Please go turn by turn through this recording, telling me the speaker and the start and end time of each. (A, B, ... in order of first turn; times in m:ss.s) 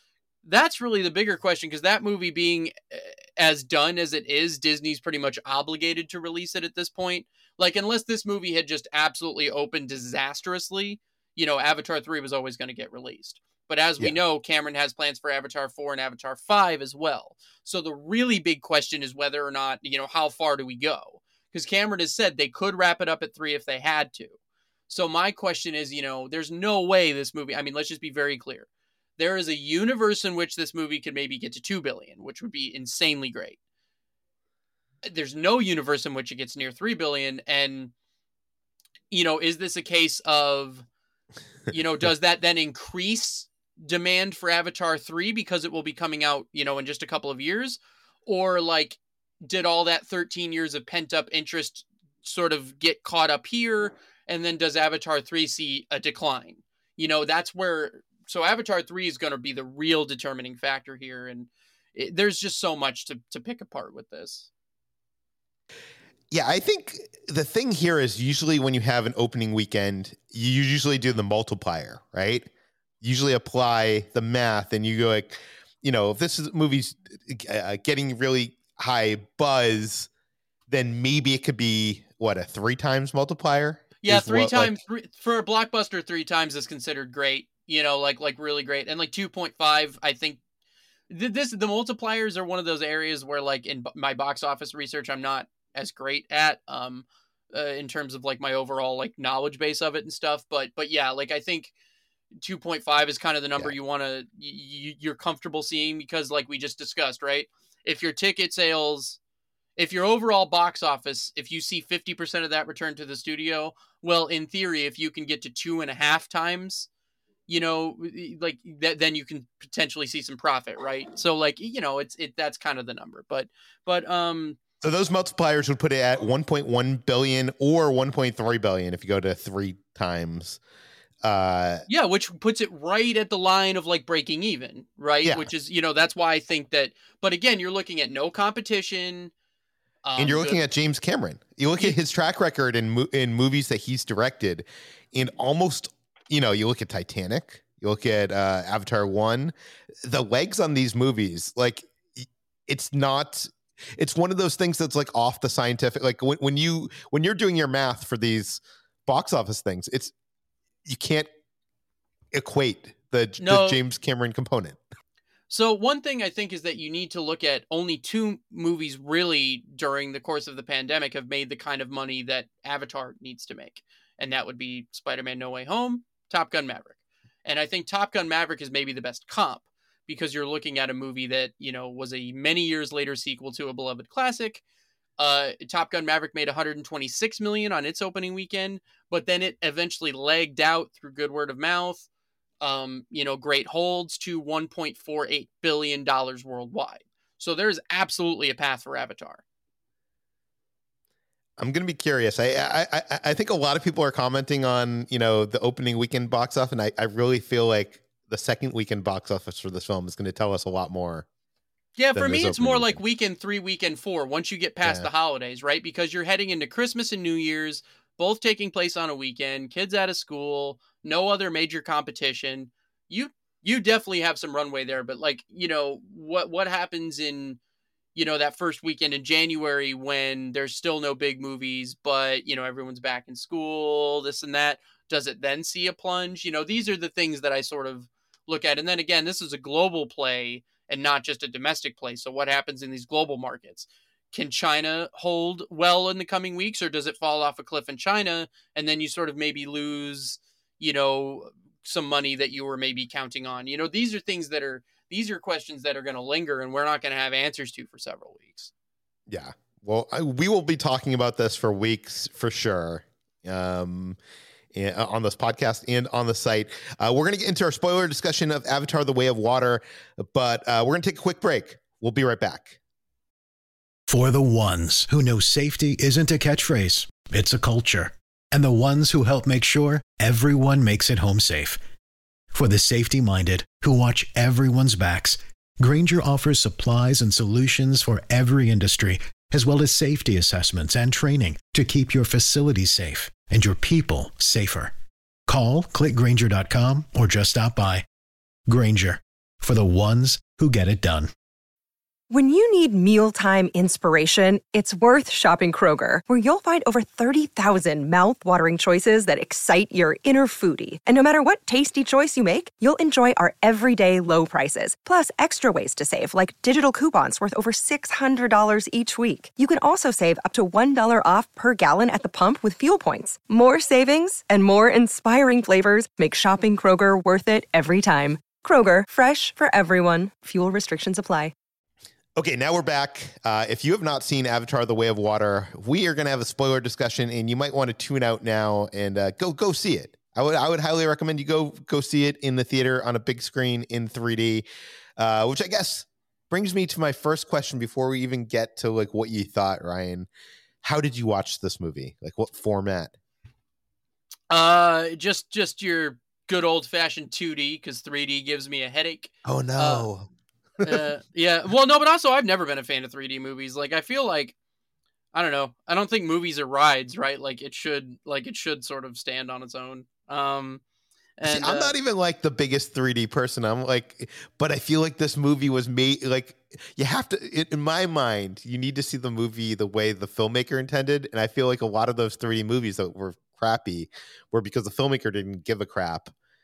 0:00.4-0:24.4 A
0:24.9-0:33.6 A
0:35.0-0:37.9 A
0:39.1-0:40.8 A
0:41.7-1:04.5 A
1:06.3-1:12.5 B
1:13.0-1:20.1 B
1:20.7-1:24.8 B
1:24.0-1:30.4 A
1:31.1-1:41.7 A
1:42.4-1:49.2 A
1:49.8-1:56.9 A
1:57.5-2:04.6 A
2:04.8-2:10.6 B
2:11.2-2:11.9 B
2:11.9-2:19.3 A
2:20.0-2:20.6 A
2:20.2-2:40.1 B
2:40.8-2:41.3 B
2:42.3-2:44.8 B
2:43.4-2:43.8 A
2:45.5-3:04.6 A
3:05.2-3:12.1 A
3:12.6-3:19.4 A
3:21.6-3:31.2 B
3:32.0-3:47.6 A
3:32.2-3:33.0 B
3:34.8-3:35.1 B
3:48.2-4:18.7 A
4:19.3-4:24.2 B
4:24.7-4:32.8 B
4:34.1-4:41.8 C
4:42.5-4:54.9 C
4:55.5-4:58.0 C
4:58.7-5:01.3 C
5:02.3-5:31.5 D
5:32.4-5:44.7 B
5:45.2-5:50.3 B
5:50.8-5:53.1 B
5:54.5-6:00.0 A
5:59.4-6:00.3 B
6:00.8-6:04.5 A
6:05.3-6:10.8 A
6:11.4-6:12.0 A
6:11.4-6:26.3 B